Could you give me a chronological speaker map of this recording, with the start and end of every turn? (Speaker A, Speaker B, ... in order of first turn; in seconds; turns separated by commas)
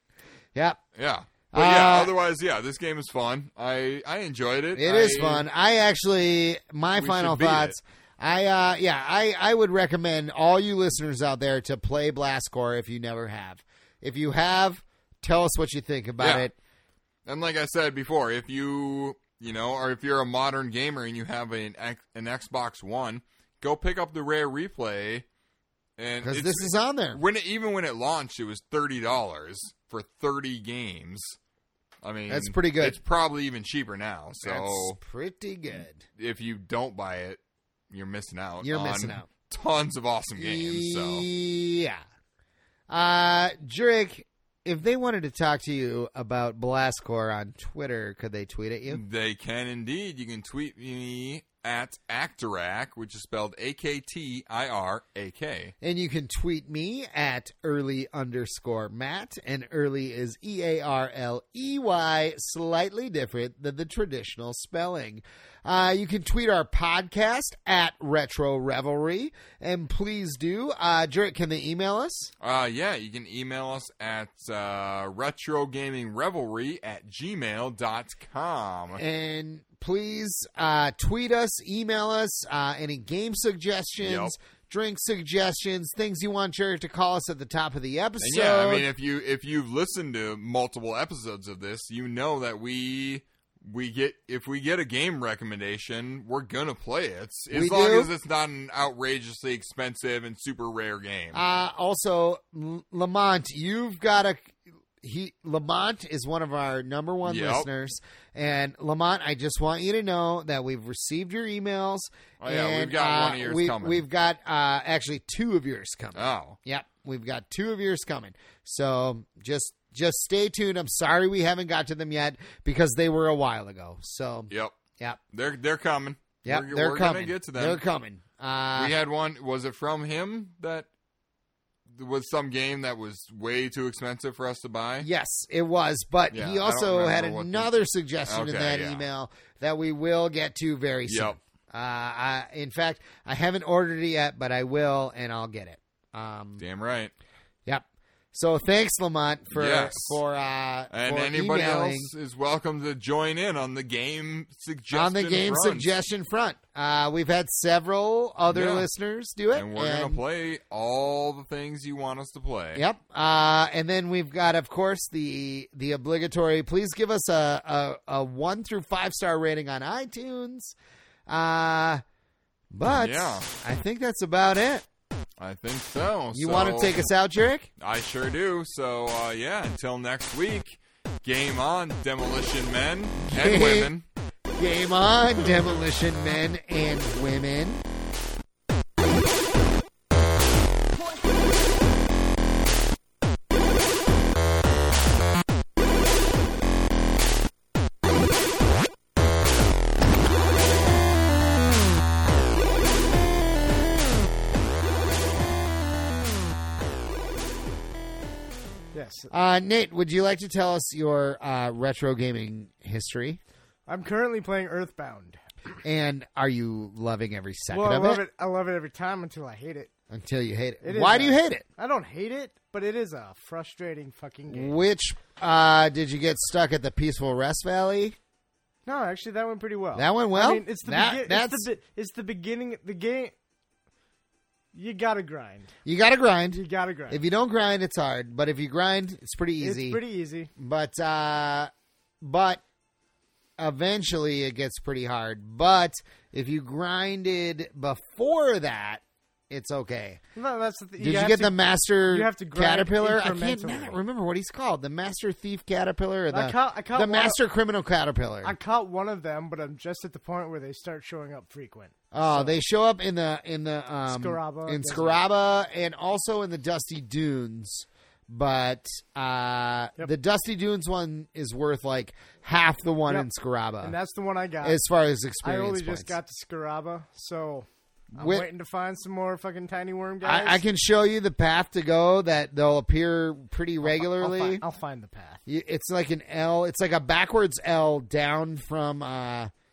Speaker A: 0.9-5.5, Speaker B: 1.5-2.1, Speaker B: 4.7-16.6, Speaker A: 7.0-7.8, Speaker A: 16.2-16.5, Speaker A: 17.3-25.3, Speaker A: 26.0-31.4, Speaker B: 26.2-27.2, Speaker A: 32.0-35.0, Speaker B: 32.3-33.0, Speaker B: 34.4-36.0, Speaker A: 36.2-37.4, Speaker A: 37.9-41.3, Speaker B: 38.6-39.3, Speaker B: 40.4-42.0, Speaker B: 42.9-49.0, Speaker A: 48.9-55.7, Speaker B: 55.8-72.3, Speaker A: 72.4-79.0, Speaker B: 79.0-88.9, Speaker A: 84.0-84.3, Speaker A: 88.2-101.4, Speaker B: 97.5-98.1, Speaker B: 101.3-125.2, Speaker A: 107.2-107.7, Speaker A: 112.4-114.0, Speaker A: 116.1-116.6, Speaker A: 124.5-124.8, Speaker A: 125.3-127.8, Speaker B: 126.5-128.9, Speaker A: 128.8-130.9, Speaker A: 131.9-135.1, Speaker B: 135.0-146.6, Speaker A: 136.3-137.7, Speaker A: 138.3-139.1, Speaker A: 141.1-141.4, Speaker A: 146.6-147.1, Speaker B: 147.7-152.1, Speaker A: 149.5-150.2, Speaker A: 150.9-155.9, Speaker B: 154.9-160.2, Speaker A: 158.5-158.9, Speaker A: 159.5-162.8, Speaker B: 162.7-170.7, Speaker B: 171.3-172.0, Speaker B: 172.7-174.8, Speaker A: 172.9-173.5, Speaker A: 175.4-177.1, Speaker B: 176.3-177.7, Speaker A: 177.8-184.1, Speaker B: 183.2-183.9, Speaker B: 184.6-187.8, Speaker C: 208.9-209.3, Speaker B: 209.3-213.4, Speaker C: 213.9-215.4, Speaker B: 215.8-218.2, Speaker C: 217.7-219.9, Speaker B: 220.1-221.7, Speaker C: 220.8-224.8, Speaker B: 224.5-228.2, Speaker C: 228.9-233.3, Speaker B: 229.9-231.7, Speaker C: 234.7-235.7, Speaker B: 235.8-240.0, Speaker C: 236.5-237.2, Speaker C: 239.6-240.5, Speaker B: 240.6-241.7, Speaker B: 242.2-242.6, Speaker B: 243.6-250.2, Speaker C: 250.4-254.0, Speaker B: 251.0-258.6, Speaker C: 256.3-257.4, Speaker C: 258.4-262.6, Speaker B: 262.1-273.9, Speaker C: 264.1-265.2, Speaker C: 273.8-274.8, Speaker B: 274.6-276.1, Speaker C: 275.4-280.6, Speaker B: 278.1-278.5, Speaker B: 280.2-284.6, Speaker C: 283.8-285.4, Speaker B: 285.4-289.5